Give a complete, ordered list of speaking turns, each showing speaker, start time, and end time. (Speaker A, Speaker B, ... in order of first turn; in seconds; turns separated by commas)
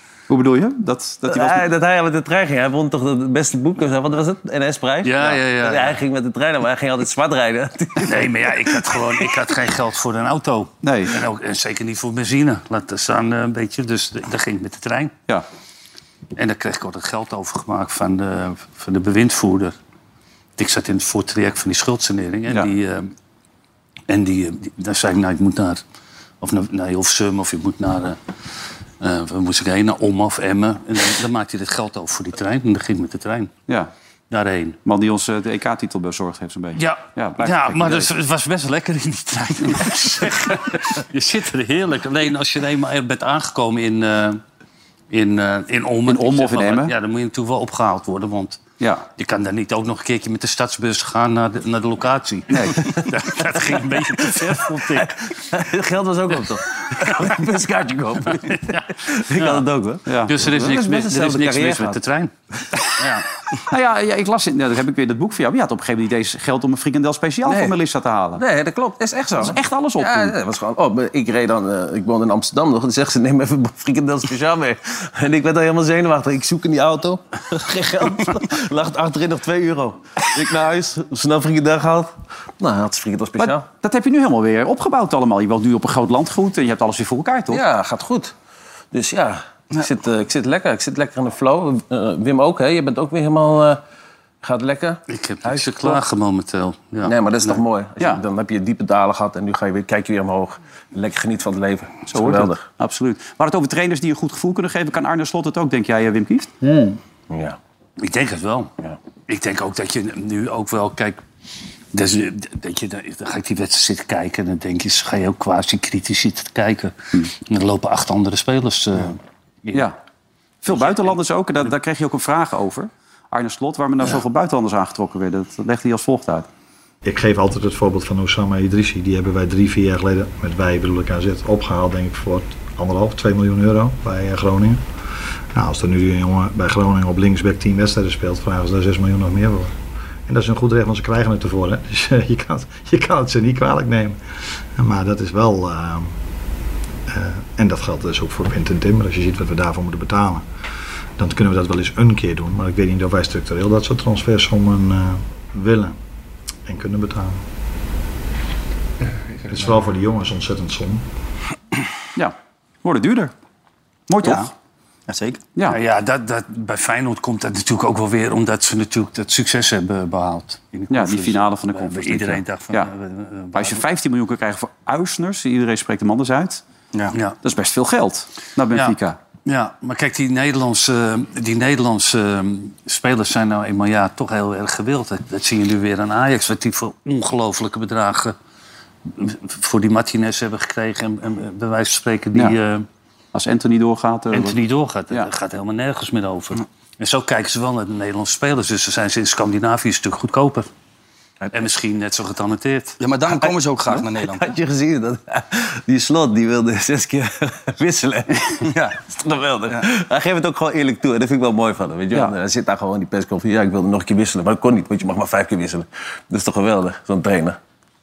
Speaker A: 0.3-1.6, Speaker B: 1.3-9.1, Speaker C: 5.0-6.0, Speaker C: 8.0-15.1, Speaker A: 10.8-11.2, Speaker C: 16.3-19.7, Speaker C: 20.6-23.1, Speaker C: 24.1-25.8, Speaker C: 26.4-28.2, Speaker C: 29.0-33.5, Speaker C: 34.3-34.8, Speaker A: 34.8-38.1, Speaker C: 36.8-44.4, Speaker C: 45.1-48.6, Speaker A: 46.0-46.9, Speaker C: 49.2-55.1, Speaker A: 52.5-52.9, Speaker B: 54.2-60.0, Speaker C: 58.5-59.6, Speaker A: 60.1-61.8, Speaker C: 60.2-62.3, Speaker B: 61.2-61.9, Speaker C: 63.0-63.2, Speaker A: 63.7-68.4, Speaker B: 67.5-67.8, Speaker B: 68.4-83.7, Speaker A: 69.3-70.3, Speaker A: 83.4-87.6, Speaker B: 87.5-88.3, Speaker B: 88.9-93.8, Speaker B: 94.4-96.0, Speaker C: 95.1-97.6, Speaker B: 97.0-102.7, Speaker A: 102.1-107.0, Speaker B: 107.3-107.6, Speaker C: 108.0-108.7, Speaker C: 109.3-111.2, Speaker C: 111.9-119.9, Speaker A: 120.6-126.5, Speaker D: 127.0-134.8, Speaker D: 135.5-139.7, Speaker D: 140.3-144.2, Speaker D: 144.8-146.1, Speaker D: 147.1-150.4, Speaker D: 151.2-156.0, Speaker D: 156.6-157.4, Speaker D: 159.5-161.0, Speaker A: 162.2-163.3, Speaker A: 164.1-164.5, Speaker E: 164.2-164.5, Speaker E: 165.1-165.4, Speaker C: 165.7-173.8, Speaker A: 170.9-172.9, Speaker A: 173.5-176.6, Speaker A: 177.4-179.2, Speaker C: 179.4-188.3, Speaker C: 189.1-192.8, Speaker A: 193.3-194.6, Speaker C: 194.3-200.7, Speaker C: 201.5-203.0, Speaker E: 203.0-204.5, Speaker B: 204.0-217.6, Speaker E: 208.6-209.0